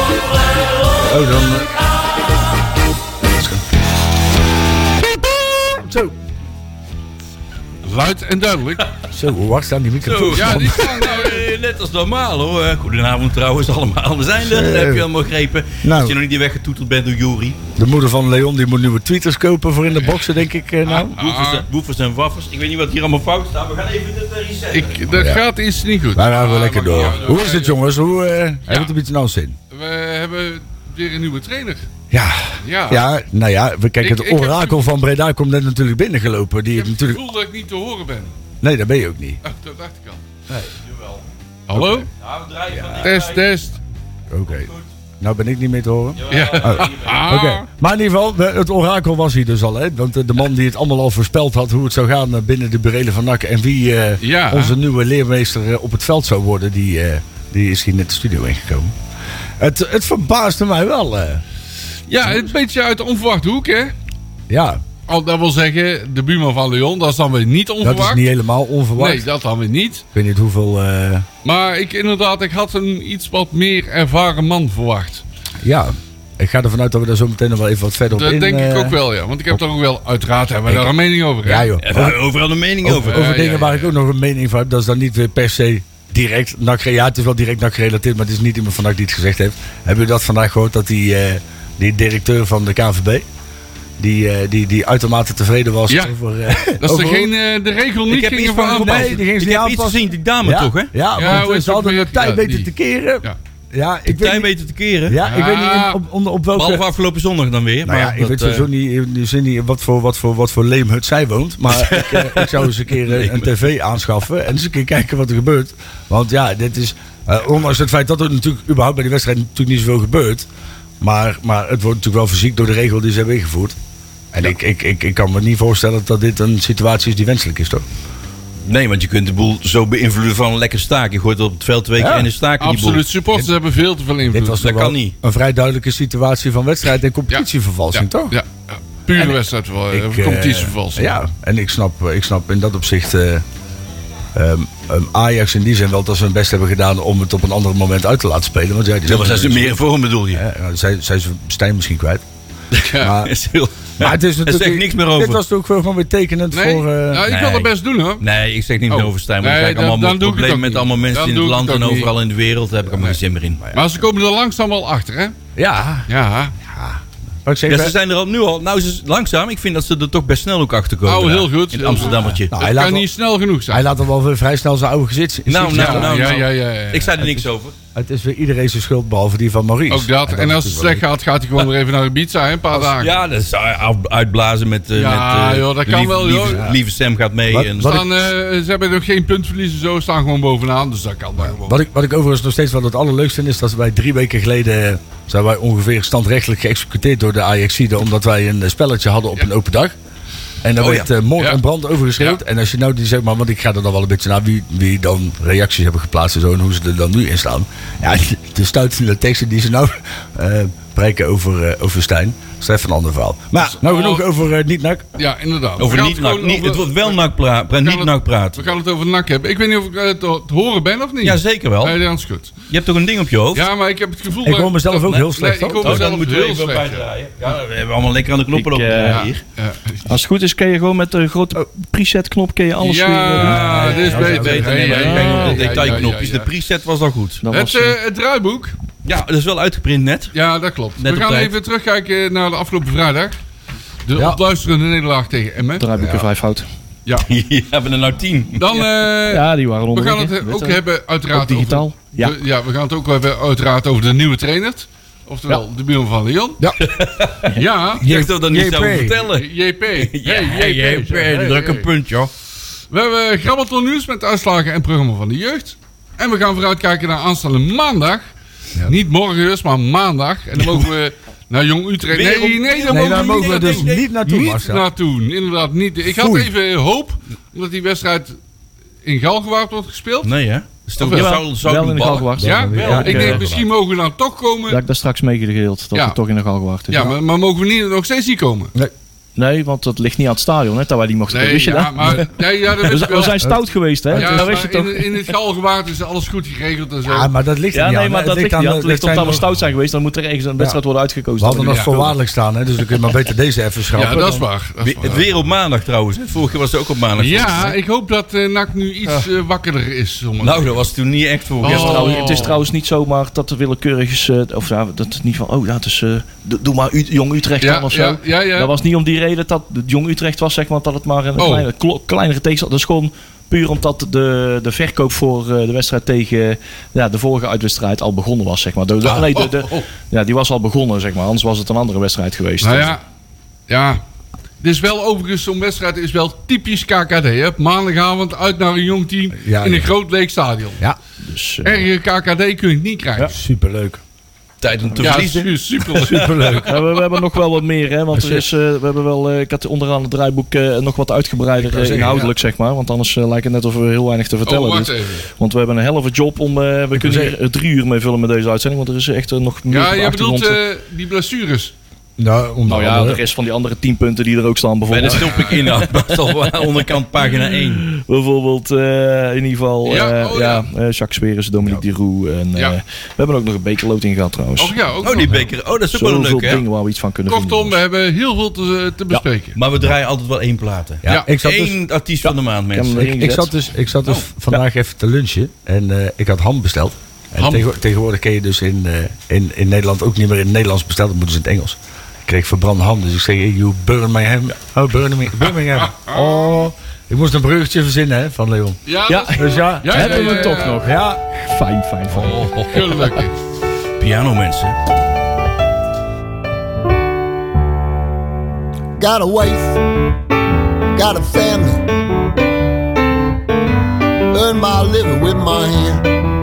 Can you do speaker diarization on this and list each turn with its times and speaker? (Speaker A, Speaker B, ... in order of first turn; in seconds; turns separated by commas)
Speaker A: 1.0-1.8, Speaker A: 3.2-3.6, Speaker A: 5.4-6.2, Speaker B: 7.8-8.8, Speaker A: 9.1-11.0, Speaker C: 10.0-17.6, Speaker B: 10.3-11.5, Speaker A: 14.4-15.1, Speaker A: 15.8-16.2, Speaker A: 17.8-21.1, Speaker B: 20.9-21.7, Speaker C: 21.0-25.2, Speaker B: 24.7-27.8, Speaker A: 25.1-25.4, Speaker A: 26.1-29.6, Speaker B: 28.7-28.9, Speaker B: 29.7-31.9, Speaker A: 32.1-37.2, Speaker B: 32.6-33.0, Speaker B: 34.0-34.9, Speaker B: 36.8-38.3, Speaker A: 38.6-39.4, Speaker B: 39.4-40.2, Speaker C: 40.9-41.2, Speaker B: 41.7-42.1, Speaker A: 41.7-42.0, Speaker C: 42.1-43.4, Speaker A: 42.7-43.1, Speaker B: 43.0-43.8, Speaker A: 44.3-58.9, Speaker C: 46.2-47.2, Speaker B: 46.3-47.6, Speaker B: 54.2-54.8, Speaker A: 59.6-61.4, Speaker B: 62.1-63.9, Speaker A: 64.5-64.8, Speaker B: 65.1-68.2, Speaker A: 67.8-69.3, Speaker B: 69.0-70.0, Speaker A: 70.1-71.3, Speaker B: 71.4-75.2, Speaker A: 75.6-79.0, Speaker B: 78.1-81.7, Speaker A: 81.4-82.2, Speaker C: 81.8-83.2, Speaker A: 82.8-93.2, Speaker B: 83.1-83.9, Speaker A: 94.0-97.3, Speaker B: 96.8-99.2, Speaker C: 98.1-100.9, Speaker A: 98.7-104.5, Speaker B: 101.2-102.7, Speaker C: 104.1-105.2, Speaker A: 105.1-106.9, Speaker B: 105.2-106.0, Speaker C: 106.5-108.7, Speaker A: 107.8-120.5, Speaker C: 111.7-113.5, Speaker A: 121.0-123.8, Speaker A: 124.3-127.8, Speaker C: 128.7-133.1, Speaker A: 132.0-132.3, Speaker B: 132.6-134.6, Speaker A: 134.3-138.4, Speaker C: 134.6-135.1, Speaker B: 137.3-141.2, Speaker A: 139.9-143.4, Speaker A: 144.3-152.2, Speaker C: 149.1-150.4, Speaker C: 152.8-155.4, Speaker B: 152.9-153.2, Speaker A: 153.0-153.3, Speaker A: 154.0-157.3, Speaker B: 156.5-158.2, Speaker C: 157.3-163.6, Speaker B: 158.9-162.1, Speaker B: 163.7-165.3, Speaker A: 165.6-166.1, Speaker B: 166.1-166.5, Speaker A: 166.7-167.9, Speaker C: 167.7-172.5, Speaker B: 171.1-173.8, Speaker A: 172.5-173.1, Speaker A: 173.7-176.4, Speaker C: 175.5-177.8, Speaker B: 175.7-177.1, Speaker A: 177.2-181.0, Speaker B: 179.9-183.1, Speaker C: 182.8-188.0, Speaker B: 184.9-186.7, Speaker A: 186.5-186.8, Speaker A: 187.5-188.1, Speaker B: 187.8-191.8, Speaker A: 191.5-199.9, Speaker A: 200.6-215.1, Speaker C: 200.8-201.1, Speaker B: 213.6-214.2, Speaker B: 215.2-217.2, Speaker C: 215.8-218.6, Speaker B: 217.8-222.6, Speaker C: 221.2-222.0, Speaker C: 222.7-223.7, Speaker B: 223.5-227.1, Speaker A: 224.4-226.1, Speaker C: 225.8-229.4, Speaker D: 228.5-229.3, Speaker B: 229.1-230.0, Speaker D: 230.1-233.8, Speaker B: 232.8-236.5, Speaker C: 233.4-237.4, Speaker A: 233.7-234.9, Speaker D: 234.9-236.0, Speaker D: 237.4-238.0, Speaker B: 237.5-238.8, Speaker C: 239.0-240.3, Speaker B: 240.3-243.3, Speaker C: 241.0-241.5, Speaker B: 244.1-245.8, Speaker A: 244.2-244.4, Speaker D: 245.8-246.7, Speaker A: 246.0-246.3, Speaker C: 247.2-248.7, Speaker B: 248.6-256.6, Speaker D: 249.3-250.8, Speaker D: 251.3-252.4, Speaker C: 256.8-262.3, Speaker B: 257.5-258.0, Speaker A: 258.0-259.2, Speaker B: 259.3-261.9, Speaker B: 262.9-268.2, Speaker B: 268.8-278.4, Speaker C: 272.1-274.0, Speaker A: 272.9-274.9, Speaker A: 276.0-276.5, Speaker B: 279.0-280.3, Speaker C: 280.2-283.6, Speaker B: 281.0-281.3, Speaker D: 281.0-283.4, Speaker A: 282.4-283.6, Speaker B: 282.4-284.8, Speaker D: 284.7-287.1, Speaker B: 286.9-288.7, Speaker D: 289.4-295.3, Speaker B: 291.3-293.4, Speaker A: 294.1-294.5, Speaker B: 294.1-297.3, Speaker A: 297.1-299.4, Speaker D: 297.7-302.2, Speaker A: 301.4-304.4, Speaker B: 303.9-305.3, Speaker C: 304.8-307.8, Speaker B: 307.2-310.8, Speaker C: 310.4-312.5, Speaker B: 311.6-312.6, Speaker D: 311.6-332.9, Speaker B: 317.6-318.7, Speaker B: 321.4-321.7, Speaker B: 329.4-329.9, Speaker B: 332.6-333.0, Speaker B: 333.7-334.0, Speaker B: 334.6-340.8, Speaker A: 339.4-339.9, Speaker D: 341.2-341.8, Speaker B: 341.6-343.3, Speaker A: 343.2-344.0, Speaker C: 344.6-346.2, Speaker B: 345.0-346.6, Speaker A: 345.9-346.8, Speaker D: 346.6-360.6, Speaker A: 348.1-348.5, Speaker A: 351.6-352.3, Speaker B: 354.5-355.2, Speaker A: 356.9-357.4, Speaker B: 359.7-361.7, Speaker A: 362.2-363.2, Speaker D: 362.7-365.8, Speaker C: 364.9-367.8, Speaker B: 365.1-365.6, Speaker D: 367.2-374.8, Speaker B: 369.9-370.7, Speaker B: 374.6-375.5, Speaker C: 375.0-376.6, Speaker D: 375.9-377.8, Speaker B: 377.3-379.6, Speaker C: 379.6-383.1, Speaker A: 381.0-381.8, Speaker D: 382.2-383.5, Speaker A: 383.0-398.8, Speaker B: 387.4-387.6, Speaker B: 395.7-396.6, Speaker B: 398.9-400.9, Speaker D: 399.1-403.2, Speaker A: 399.3-401.2, Speaker C: 402.2-402.8, Speaker B: 402.7-403.4, Speaker C: 404.0-404.8, Speaker E: 409.0-409.8, Speaker E: 410.9-411.9, Speaker E: 414.3-416.1